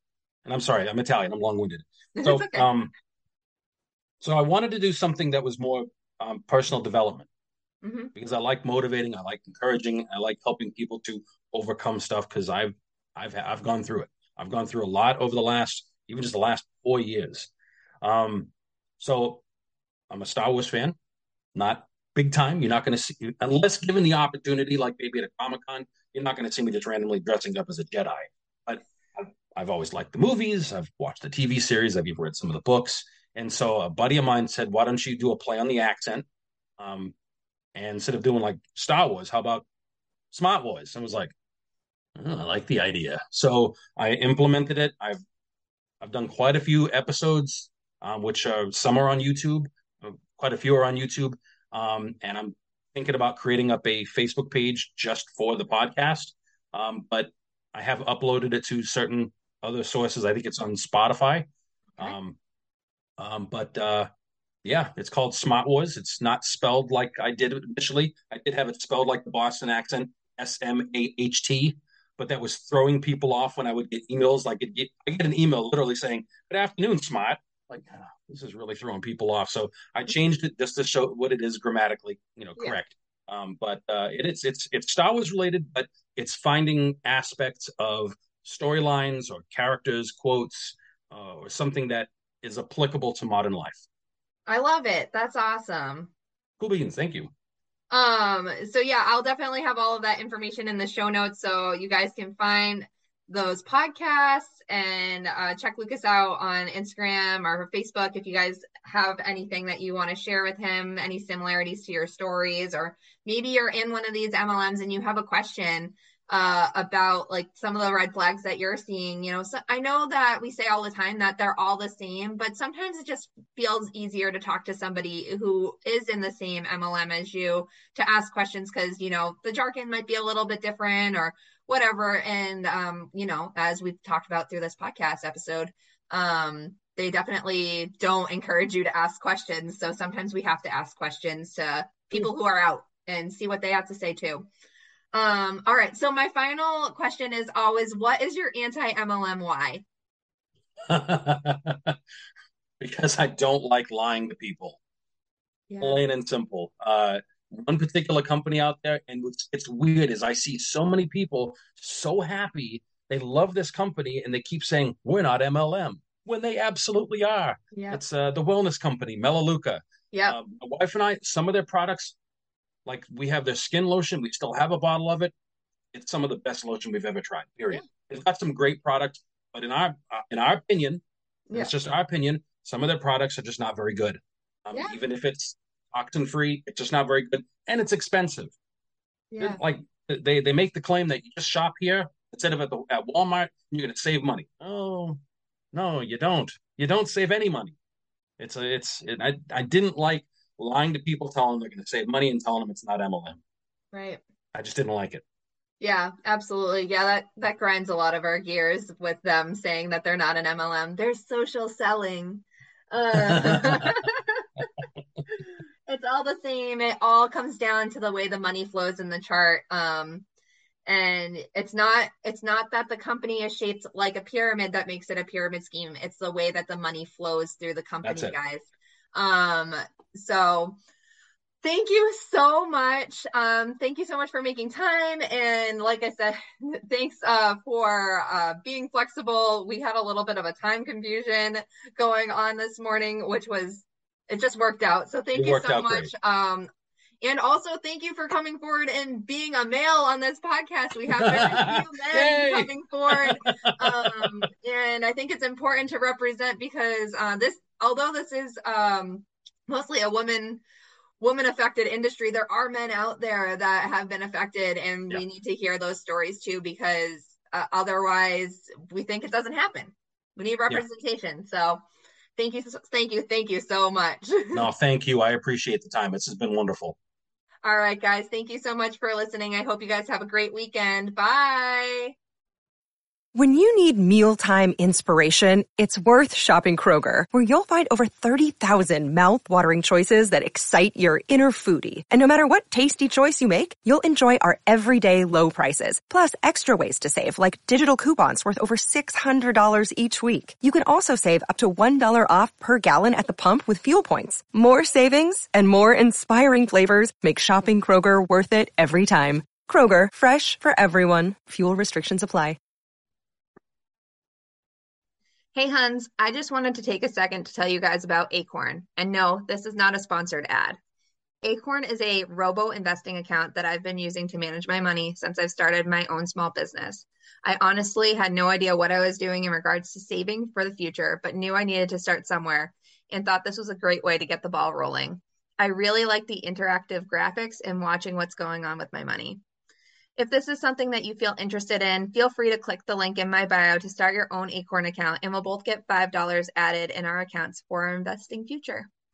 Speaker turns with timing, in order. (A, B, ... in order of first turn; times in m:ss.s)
0:00.4-0:02.9 A
0:02.2-0:02.7 B
0:04.2-0:07.3 A
0:07.8-0:08.1 B
0:08.1-0:17.5 A
0:18.0-0:19.4 A
0:20.1-0:21.0 A
0:21.5-0:36.2 A
0:36.8-0:37.1 A
0:37.7-0:39.6 A
0:40.3-0:41.3 A
0:42.2-0:45.2 A
0:46.0-1:02.4 A
1:03.2-1:04.1 A
1:04.6-1:33.8 A
1:34.5-1:36.1 B
1:36.6-1:37.3 A
1:37.9-2:24.5 B
2:25.1-2:29.8 B
2:30.8-2:32.0 A
2:32.8-2:34.8 A
2:35.7-2:36.0 B
2:35.8-2:52.2 A
2:47.7-2:48.0 B
2:50.1-2:50.4 B
2:52.8-2:55.3 A
2:55.9-3:01.0 A
3:01.5-3:08.5 A
3:04.7-3:05.0 B
3:09.3-3:09.6 B
3:09.4-3:15.2 A
3:15.7-3:17.8 A
3:18.4-3:23.4 A
3:23.9-3:24.2 B
3:24.5-3:25.2 A
3:25.8-3:34.4 B
3:33.2-3:33.9 A
3:35.4-3:40.2 B
3:40.8-3:50.8 B
3:48.0-3:48.4 A
3:51.6-4:06.7 B
4:05.3-4:06.1 A
4:07.2-4:20.6 B
4:11.2-4:14.3 A
4:21.2-4:31.8 B
4:32.4-4:34.7 B
4:34.5-4:37.0 A
4:37.6-4:42.1 B
4:43.3-5:12.6 C
5:15.5-5:20.8 B
5:21.4-5:39.4 B
5:40.2-5:48.9 B